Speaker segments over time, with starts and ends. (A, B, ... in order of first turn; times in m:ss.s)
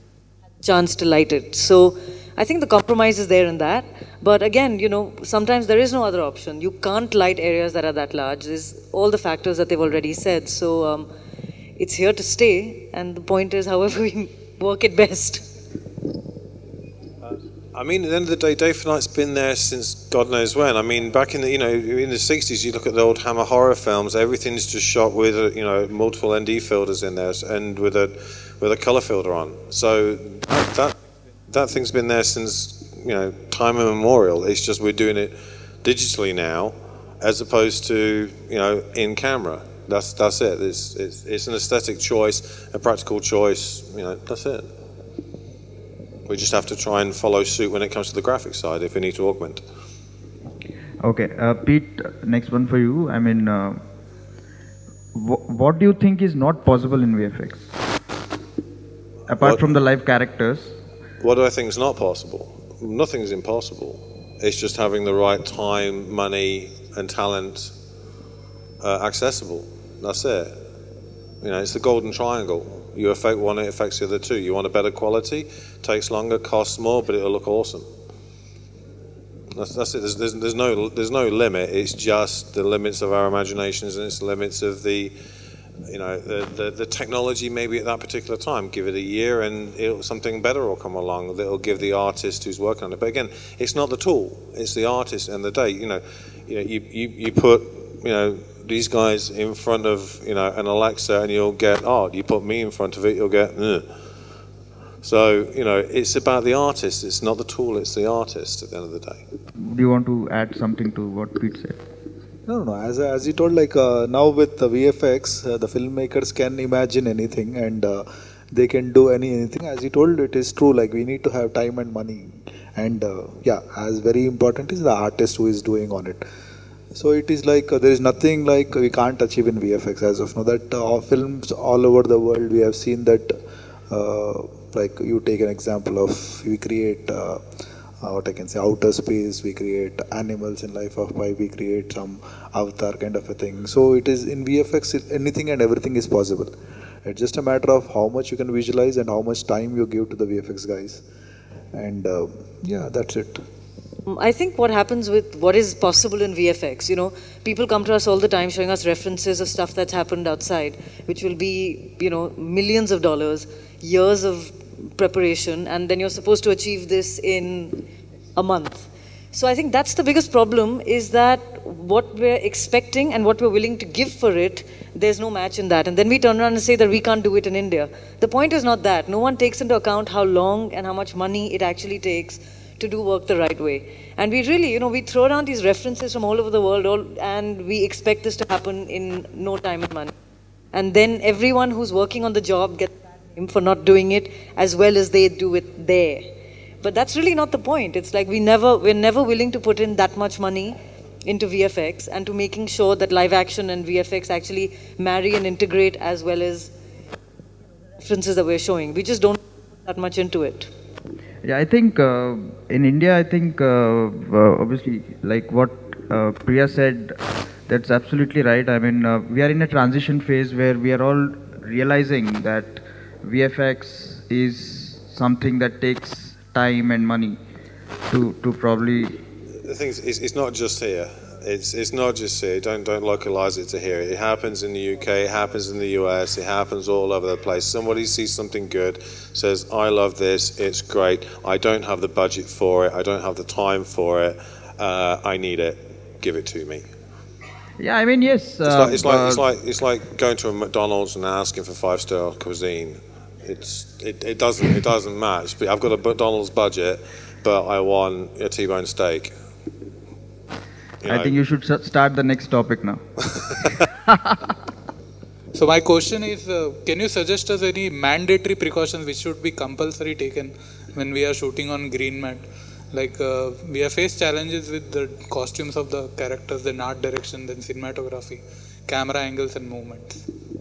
0:00.6-0:11.1 A
0:11.8-0:15.5 A
0:17.2-0:30.9 B
0:31.5-0:44.7 B
0:46.2-0:49.6 B
0:51.0-0:53.8 C
0:55.1-0:57.7 C
0:59.3-1:00.8 C
0:59.4-0:59.7 B
1:01.2-1:07.7 B
1:08.8-1:10.6 B
1:11.4-1:17.8 B
1:19.5-1:25.1 B
1:25.9-1:43.9 B
1:45.0-1:49.2 B
1:49.6-1:51.8 C
1:52.5-2:06.2 D
2:06.9-2:13.4 D
2:13.9-2:17.4 D
2:18.0-2:31.0 D
2:31.7-2:33.4 D
2:34.0-2:47.8 A
2:48.4-3:10.1 A
3:10.7-3:16.3 A
3:16.8-3:26.7 A
3:28.0-3:30.7 A
3:31.4-3:47.4 C
3:48.1-3:49.2 C
3:49.6-4:06.8 B
4:07.8-4:09.4 C
4:08.6-4:19.3 B
4:21.0-4:21.4 B
4:21.0-4:23.0 C
4:23.6-4:24.5 C
4:25.5-4:40.2 E